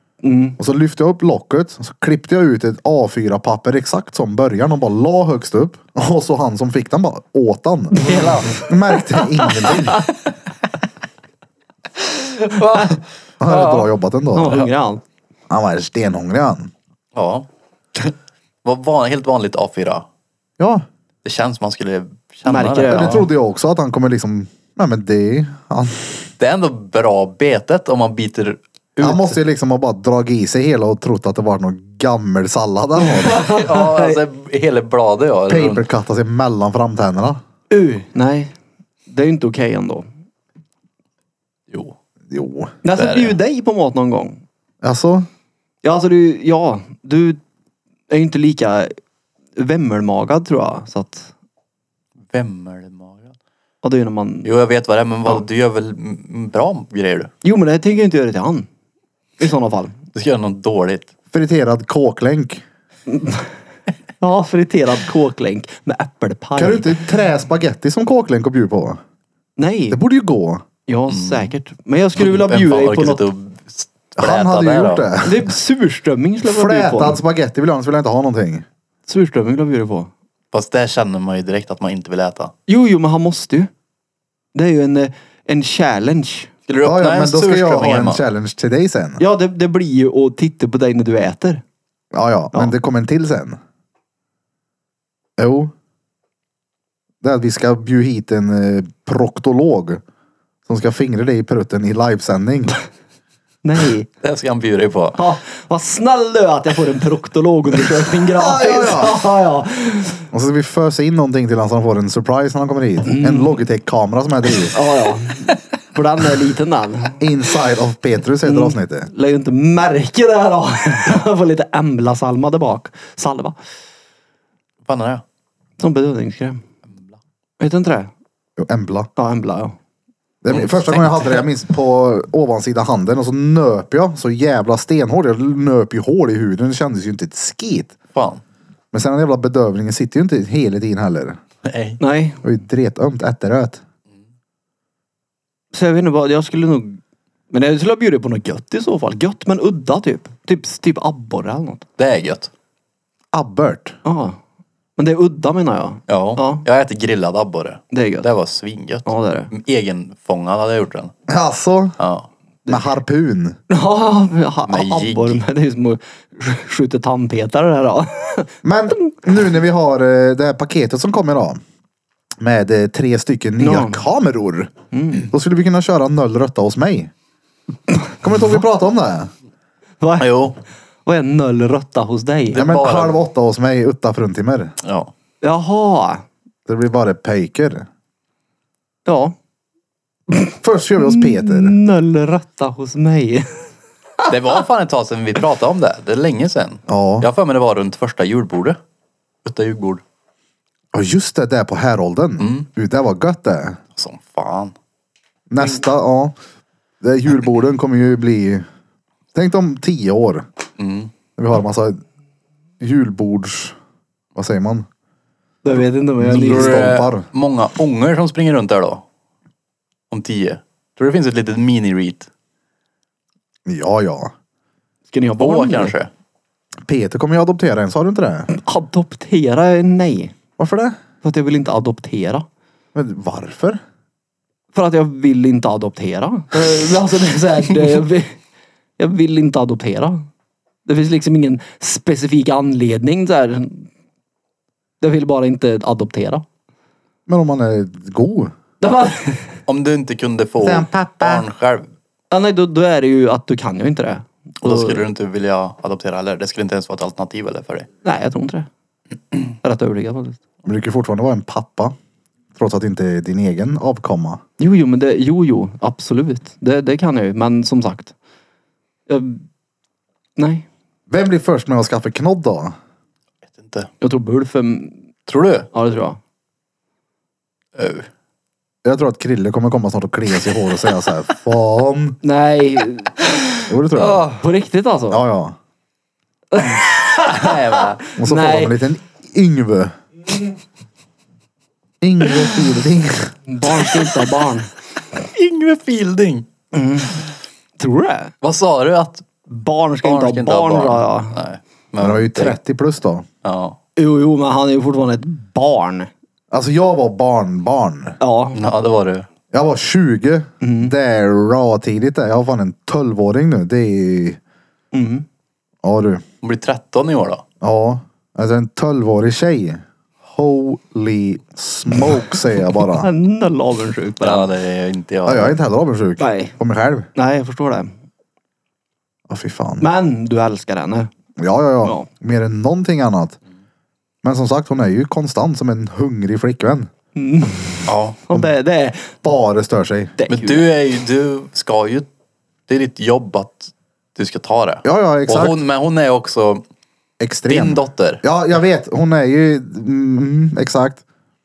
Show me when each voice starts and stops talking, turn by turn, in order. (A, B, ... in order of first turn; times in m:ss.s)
0:00.2-0:00.6 A
0:00.6-0:08.0 B
0:07.9-0:10.0 A
0:08.0-0:08.6 C
0:08.6-0:10.1 B
0:12.0-0:13.9 C
0:13.4-0:14.6 B
0:14.3-0:15.0 A
0:15.5-0:16.7 B
0:17.2-0:20.1 C
0:20.6-0:20.8 B
0:21.2-0:23.2 C
0:22.5-0:23.3 A
0:22.9-0:26.3 B
0:26.4-0:29.4 C
0:29.0-0:33.4 B
0:33.0-0:34.2 A
0:33.4-0:35.8 C
0:35.5-0:37.4 B
0:37.7-0:38.5 A
0:39.1-0:40.1 A
0:42.3-0:42.7 B
0:42.8-0:44.4 A
0:42.9-0:43.4 C
0:44.8-0:45.3 B
0:45.8-0:47.4 A
0:48.1-0:48.9 A
0:49.6-0:51.3 A
0:52.3-0:53.3 C
0:53.8-0:54.5 A
0:54.4-0:57.3 C
0:57.4-0:58.7 A
0:59.4-1:00.0 A
1:00.1-1:01.1 C
1:01.3-1:02.6 B
1:03.1-1:03.5 A
1:04.2-1:07.0 A
1:06.6-1:09.0 B
1:09.6-1:10.0 A
1:09.9-1:10.6 B
1:10.9-1:13.2 A
1:11.1-1:11.5 C
1:12.2-1:15.1 C
1:14.2-1:15.5 B
1:15.2-1:17.2 A
1:16.4-1:18.7 B
1:19.1-1:20.1 A
1:20.5-1:22.5 C
1:22.7-1:23.7 A
1:24.5-1:26.5 A
1:26.7-1:28.2 C
1:26.8-1:29.2 B
1:29.2-1:31.6 A
1:32.1-1:33.6 B
1:35.4-1:35.7 B
1:37.2-1:40.0 B
1:40.7-1:42.8 B
1:43.6-1:44.1 A
1:44.2-1:45.2 C
1:45.2-1:50.2 A
1:48.4-1:49.2 B
1:50.3-1:54.8 B
1:53.0-1:53.6 A
1:54.7-1:57.2 A
1:57.2-1:59.1 B
1:58.4-2:03.6 A
2:04.8-2:05.2 C
2:05.8-2:06.6 A
2:07.6-2:08.1 A
2:08.6-2:09.1 B
2:09.2-2:09.8 A
2:10.4-2:18.0 B
2:10.5-2:11.4 C
2:18.1-2:18.4 C
2:18.9-2:21.4 B
2:21.6-2:22.0 C
2:22.0-2:22.4 A
2:22.4-2:23.8 B
2:25.7-2:27.0 A
2:27.5-2:31.8 A
2:32.0-2:32.5 C
2:33.3-2:34.0 B
2:34.0-2:34.4 A
2:35.0-2:36.6 A
2:36.1-2:41.1 C
2:37.9-2:38.3 A
2:39.1-2:39.5 A
2:41.3-2:42.0 B
2:42.0-2:42.3 C
2:42.7-2:43.6 B
2:43.7-2:48.5 A
2:44.7-2:45.4 C
2:48.6-2:51.6 B
2:52.4-2:54.7 B
2:53.6-2:54.0 A
2:54.9-2:55.3 A
2:55.3-2:57.1 B
2:58.2-2:59.3 B
3:00.0-3:00.3 A
3:00.2-3:00.6 C
3:01.1-3:02.6 A
3:02.5-3:03.2 C
3:02.6-3:04.7 B
3:04.8-3:05.1 C
3:05.4-3:06.2 A
3:06.7-3:07.9 B
3:09.1-3:09.4 A
3:10.3-3:13.7 A
3:10.6-3:11.8 B
3:14.3-3:18.8 C
3:16.9-3:17.3 B
3:19.4-3:20.0 C
3:20.9-3:23.8 B
3:22.4-3:22.7 C
3:24.0-3:24.7 C
3:25.5-3:26.4 B
3:27.0-3:28.6 B
3:29.3-3:30.5 B
3:30.8-3:31.1 C
3:31.4-3:32.0 B
3:32.8-3:33.8 B
3:34.4-3:34.9 B
3:35.6-3:36.9 A
3:36.2-3:37.3 B
3:36.3-3:39.0 C
3:40.1-3:42.3 C
3:43.7-3:44.3 B
3:45.1-3:45.9 A
3:45.4-3:46.1 C
3:46.8-3:48.5 B
3:48.5-3:50.3 A
3:50.6-3:51.0 B
3:51.2-3:52.5 A
3:53.0-3:53.8 B
3:54.7-3:58.4 A
3:59.0-4:00.3 A
4:00.9-4:03.9 A
4:05.0-4:06.4 A
4:07.3-4:08.5 B
4:08.8-4:09.5 A
4:09.7-4:11.9 C
4:10.6-4:11.4 B
4:12.3-4:15.0 A
4:14.6-4:17.9 C
4:18.0-4:18.7 A
4:19.6-4:20.4 A
4:20.6-4:22.0 B
4:22.6-4:24.4 B
4:24.6-4:28.1 A
4:29.1-4:29.4 A
4:30.4-4:30.7 A
4:31.1-4:32.7 B
4:33.6-4:33.9 C
4:34.0-4:35.0 A
4:35.3-4:35.7 C
4:35.7-4:36.2 A
4:37.8-4:38.1 C
4:38.8-4:42.2 B
4:42.2-4:43.3 A
4:43.7-4:44.3 B
4:44.0-4:44.4 C
4:44.3-4:45.2 A
4:45.1-4:45.6 B
4:46.5-4:48.8 A
4:47.2-4:48.0 C
4:48.2-4:50.0 B
4:52.0-4:53.3 B
4:53.5-4:54.7 A
4:55.1-4:56.5 C
4:56.7-4:57.2 A
4:57.8-4:58.3 A
4:58.4-4:59.3 C
4:59.5-5:01.4 A
5:00.0-5:02.6 C
5:02.0-5:03.3 B
5:03.4-5:03.8 C
5:04.0-5:06.1 A
5:06.5-5:08.2 B
5:08.2-5:08.6 A
5:08.5-5:09.3 C
5:09.5-5:14.4 B
5:10.6-5:10.9 A
5:14.9-5:15.2 A
5:15.8-5:16.2 B
5:16.4-5:17.4 C
5:17.6-5:23.1 B
5:22.9-5:24.5 A
5:24.2-5:25.6 C
5:25.2-5:27.1 B
5:26.2-5:26.6 A
5:27.2-5:27.9 A
5:29.3-5:29.8 B
5:29.8-5:31.1 A
5:31.4-5:33.4 B
5:34.2-5:36.9 B
5:37.2-5:39.2 A
5:37.9-5:38.2 C
5:39.2-5:40.2 B
5:40.2-5:40.7 A
5:40.3-5:42.1 C
5:42.7-5:46.6 C
5:44.8-5:45.6 B
5:47.2-5:51.0 B
5:47.5-5:48.2 C